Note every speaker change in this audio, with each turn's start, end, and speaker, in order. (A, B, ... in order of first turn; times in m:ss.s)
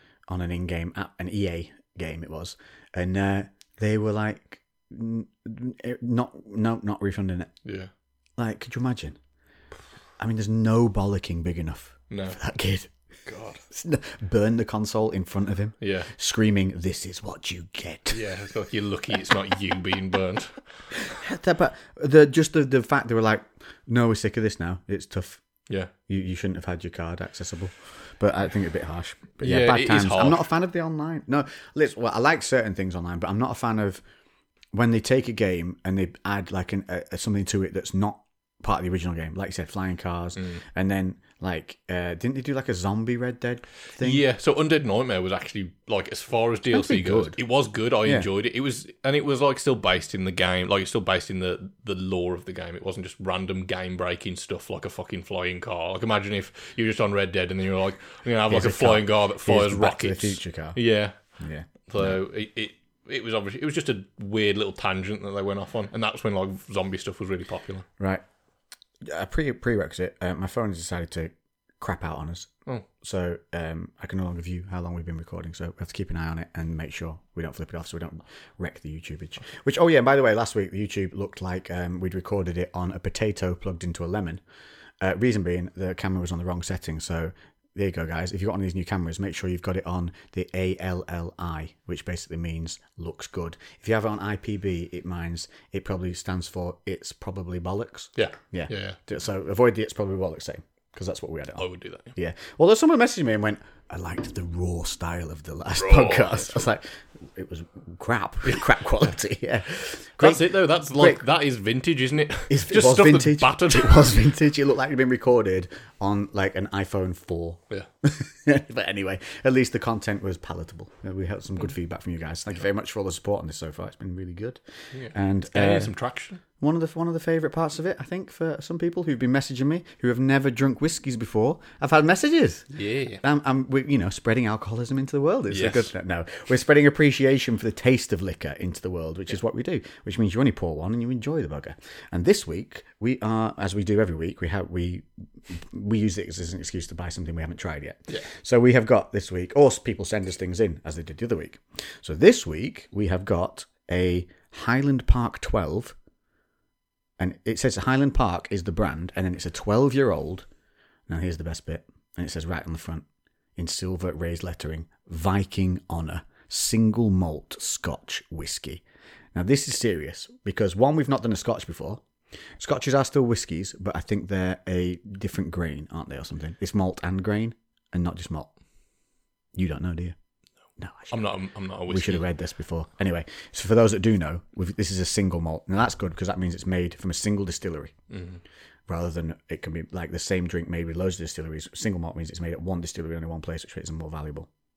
0:00.3-0:07.5 A
0:07.6-0:07.9 B
0:08.4-0:09.2 A
0:10.2-0:12.9 A
0:12.1-0:12.4 B
0:13.3-0:13.6 B
0:13.7-0:18.2 A
0:15.8-0:16.1 B
0:18.1-0:20.6 B
0:20.9-0:25.4 A
0:26.1-0:34.0 A
0:29.4-0:30.4 B
0:34.7-0:44.2 A
0:40.4-0:40.6 B
0:44.0-1:01.2 B
0:46.7-0:47.4 A
0:58.5-1:00.8 A
1:01.4-1:02.2 A
1:01.9-1:07.9 B
1:09.0-1:12.5 A
1:13.0-1:24.4 A
1:25.0-1:51.2 A
1:38.2-1:39.0 B
1:41.6-1:42.1 B
1:45.8-1:46.6 B
1:50.2-1:54.1 B
1:52.5-2:05.9 A
2:04.9-2:06.4 B
2:06.6-2:36.0 A
2:12.7-2:13.2 B
2:15.5-2:15.9 B
2:37.2-2:40.5 A
2:41.1-2:43.0 A
2:43.6-2:48.8 A
2:49.4-2:52.0 A
2:52.6-2:58.5 A
2:59.6-3:00.2 A
3:00.8-3:01.2 A
3:01.1-3:02.2 B
3:01.9-3:08.0 A
3:08.1-3:08.4 B
3:08.9-3:14.5 A